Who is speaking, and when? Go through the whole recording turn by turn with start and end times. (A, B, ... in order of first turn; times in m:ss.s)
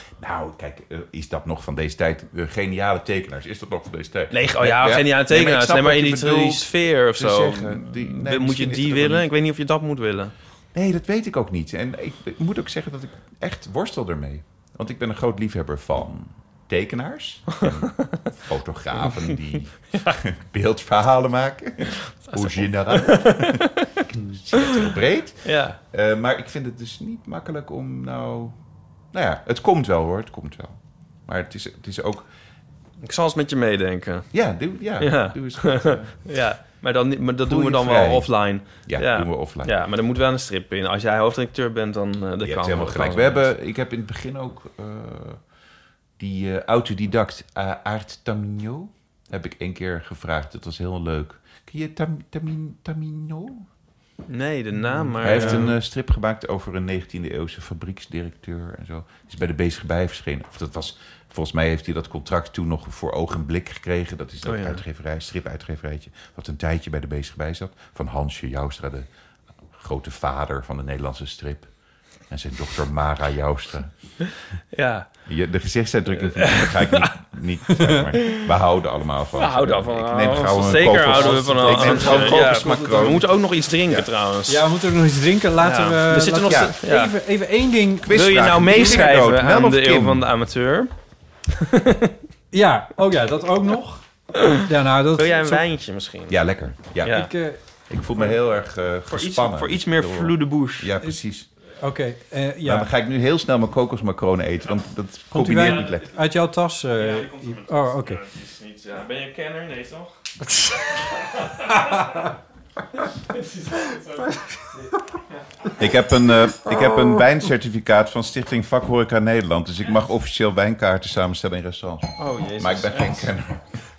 0:00.2-0:09.3 A
0:04.3-0:10.3 B
0:10.7-0:28.6 A
0:22.3-0:23.9 B
0:25.4-0:25.8 B
0:29.1-0:32.3 A
0:33.0-0:34.3 B
0:34.3-0:36.3 A
0:35.0-0:43.4 B
0:37.4-0:39.7 A
0:42.4-0:45.4 A
0:46.2-0:53.6 A
0:54.3-0:55.7 B
0:55.2-1:09.1 A
0:55.3-0:55.6 C
1:04.4-1:04.8 B
1:09.7-1:11.7 A
1:12.3-1:13.9 A
1:14.7-1:15.1 B
1:15.3-1:23.3 A
1:16.2-1:17.1 B
1:17.8-1:18.0 C
1:18.2-1:18.5 B
1:19.3-1:24.7 B
1:21.1-1:23.2 C
1:24.5-1:28.2 C
1:25.6-1:27.1 B
1:26.4-1:26.7 A
1:28.0-1:30.2 A
1:28.1-1:30.9 B
1:31.5-1:32.1 B
1:32.5-1:35.6 C
1:35.2-1:36.4 B
1:36.3-1:37.3 A
1:37.0-1:37.3 B
1:37.0-1:37.6 C
1:37.9-1:41.5 A
1:39.1-1:40.9 B
1:41.8-1:42.9 C
1:42.6-1:46.1 A
1:45.3-1:48.2 C
1:47.0-1:50.1 B
1:51.0-1:52.3 B
1:53.3-1:54.4 B
1:55.8-2:03.6 A
2:02.2-2:03.3 B